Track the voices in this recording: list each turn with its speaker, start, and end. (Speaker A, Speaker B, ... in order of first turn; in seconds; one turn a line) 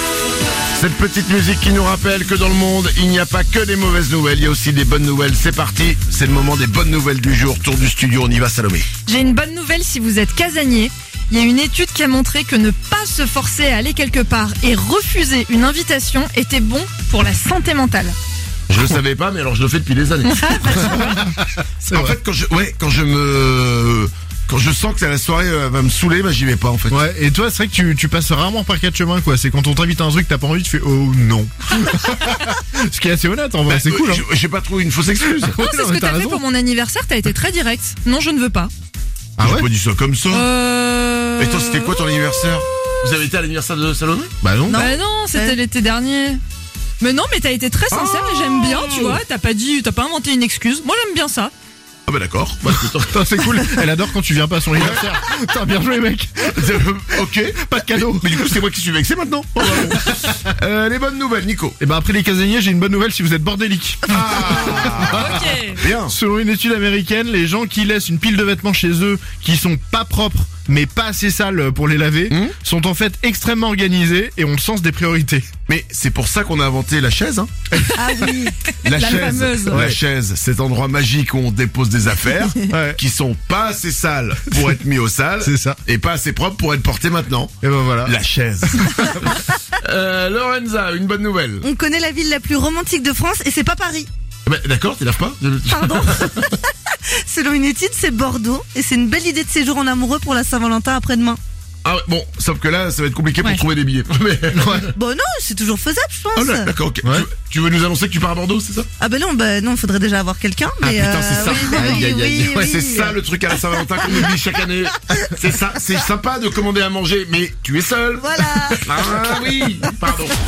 Speaker A: 0.7-8.9
Speaker B: 9.1-18.1
Speaker A: 18.7-21.2
Speaker B: 20.3-21.0
Speaker A: 21.8-27.0
Speaker C: 21.9-22.1
Speaker C: 26.9-34.2
Speaker A: 33.7-35.6
Speaker C: 35.3-36.4
Speaker B: 35.5-38.7
Speaker C: 39.4-39.6
Speaker A: 39.4-40.5
Speaker B: 40.3-41.9
Speaker A: 41.4-44.4
Speaker C: 44.4-44.9
Speaker D: 44.7-45.5
Speaker B: 44.7-46.4
Speaker B: 47.0-51.5
Speaker A: 47.9-49.2
Speaker A: 52.1-53.9
Speaker C: 53.0-56.7
Speaker A: 56.5-61.8
Speaker C: 57.4-58.6
Speaker C: 59.8-60.1
Speaker C: 61.8-65.3
Speaker A: 64.1-66.1
Speaker B: 65.0-65.8
Speaker C: 66.0-75.5
Speaker A: 72.3-72.5
Speaker A: 75.7-77.5
Speaker C: 77.7-78.4
Speaker D: 78.0-78.5
Speaker B: 78.2-79.9
Speaker A: 78.8-91.6
Speaker C: 79.7-80.0
Speaker C: 82.7-83.0
Speaker C: 85.4-85.8
Speaker C: 87.6-88.1
Speaker C: 88.8-89.0
Speaker D: 91.6-94.1
Speaker A: 94.5-96.5
Speaker D: 95.7-96.6
Speaker D: 97.2-101.4
Speaker A: 101.8-104.9
Speaker C: 104.5-104.8
Speaker D: 104.8-106.7
Speaker A: 106.3-108.9
Speaker D: 109.0-113.2
Speaker A: 110.8-120.4
Speaker C: 111.6-112.3
Speaker D: 118.2-119.8